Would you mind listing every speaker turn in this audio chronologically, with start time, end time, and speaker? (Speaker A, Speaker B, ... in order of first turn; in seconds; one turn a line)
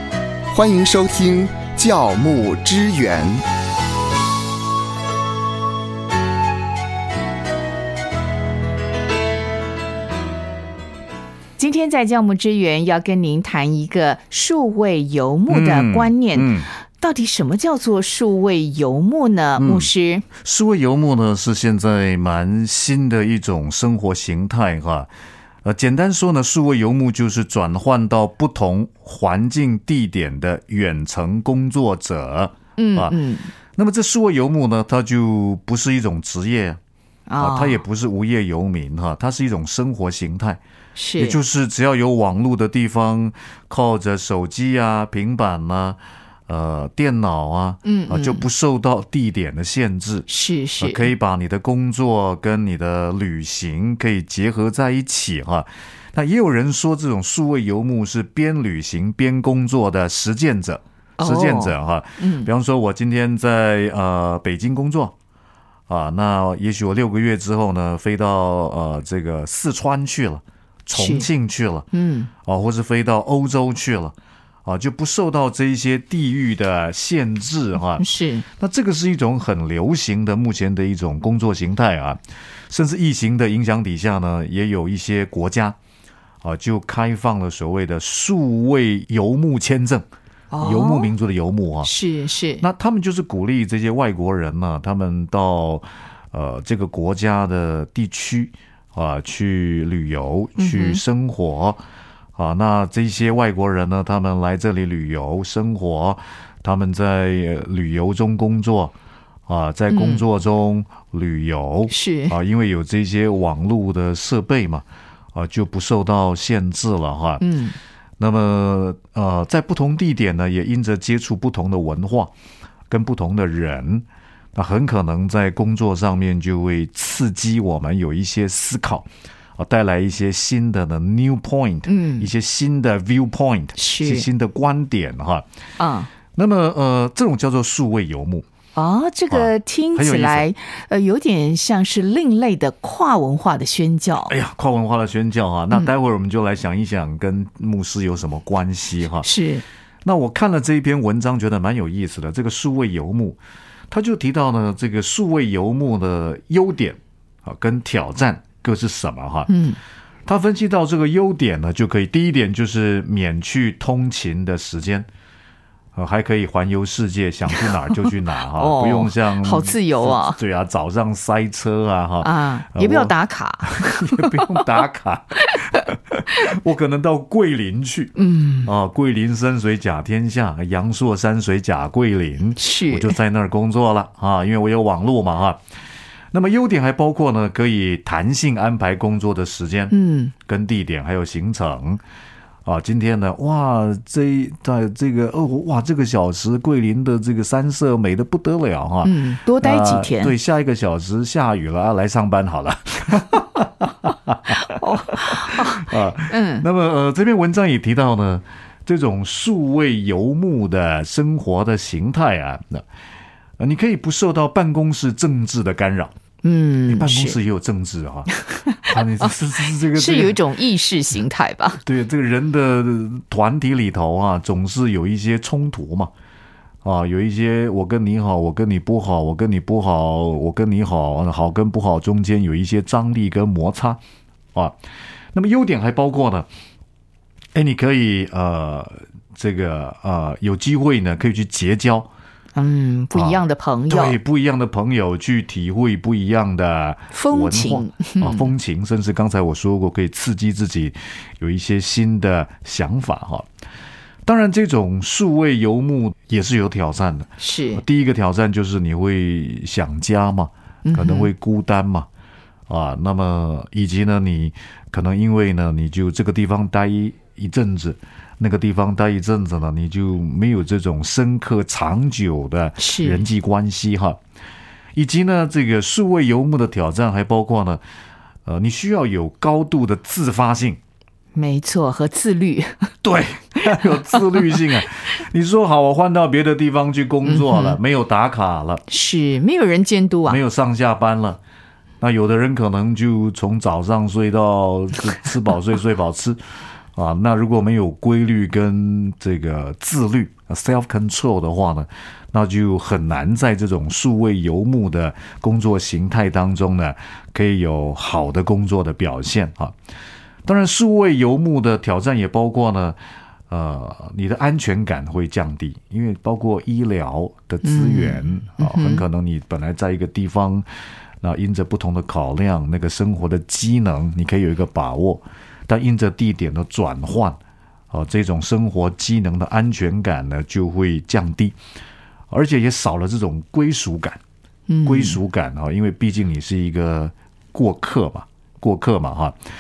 Speaker A: 0.5-3.4
Speaker B: 11.6-20.2
Speaker C: 15.5-16.7
Speaker C: 19.6-25.1
Speaker C: 25.6-33.2
Speaker B: 32.8-33.5
Speaker C: 33.8-36.8
Speaker B: 37.3-37.8
Speaker C: 37.4-40.6
Speaker B: 41.0-41.4
Speaker C: 41.2-50.3
Speaker B: 47.8-48.5
Speaker B: 50.3-51.1
Speaker C: 50.8-65.2
Speaker B: 61.2-62.5
Speaker C: 65.9-71.9
Speaker B: 70.9-71.3
Speaker B: 71.9-72.3
Speaker C: 72.4-78.0
Speaker B: 78.0-78.5
Speaker C: 78.6-85.8
Speaker C: 86.4-90.0
Speaker B: 90.5-91.1
Speaker C: 90.6-91.9
Speaker B: 91.8-92.7
Speaker C: 92.6-101.8
Speaker B: 100.6-101.0
Speaker C: 102.4-109.0
Speaker C: 109.5-117.4
Speaker B: 109.9-110.2
Speaker B: 111.9-112.4
Speaker B: 117.4-117.8
Speaker C: 118.2-122.3
Speaker C: 122.9-135.4
Speaker B: 131.9-132.3
Speaker B: 133.8-134.3
Speaker B: 135.8-136.1
Speaker C: 136.3-138.5
Speaker B: 138.8-144.3
Speaker C: 139.3-140.5
Speaker C: 144.3-149.3
Speaker B: 149.2-149.6
Speaker C: 150.0-153.4
Speaker C: 153.9-159.5
Speaker B: 159.5-159.8
Speaker C: 160.3-165.1
Speaker C: 165.9-185.6
Speaker B: 168.5-170.4
Speaker B: 172.2-174.7
Speaker B: 178.2-178.7
Speaker B: 182.6-183.2
Speaker C: 186.3-192.0
Speaker B: 189.9-190.3
Speaker C: 192.7-212.8
Speaker B: 199.0-200.3
Speaker B: 204.7-206.7
Speaker C: 213.6-216.1
Speaker B: 216.4-217.4
Speaker C: 216.9-220.4
Speaker B: 218.3-221.8
Speaker C: 221.8-226.1
Speaker C: 226.8-234.0
Speaker C: 235.3-236.5
Speaker C: 237.6-242.1
Speaker B: 242.6-244.2
Speaker C: 243.1-253.5
Speaker B: 247.1-248.5
Speaker C: 254.2-262.1
Speaker B: 257.4-257.8
Speaker B: 260.9-261.3
Speaker C: 262.7-274.2
Speaker B: 272.8-273.3
Speaker C: 274.9-277.8
Speaker C: 278.5-280.8
Speaker B: 281.4-282.9
Speaker C: 283.0-288.8
Speaker B: 283.8-284.6
Speaker B: 287.2-287.8
Speaker B: 288.9-290.4
Speaker C: 290.3-291.4
Speaker C: 292.0-296.4
Speaker C: 296.9-309.8
Speaker C: 310.4-313.0
Speaker C: 313.5-320.7
Speaker B: 317.6-319.1
Speaker C: 321.2-327.4
Speaker C: 327.9-331.6
Speaker C: 332.3-334.2
Speaker B: 334.7-335.2
Speaker C: 334.9-339.4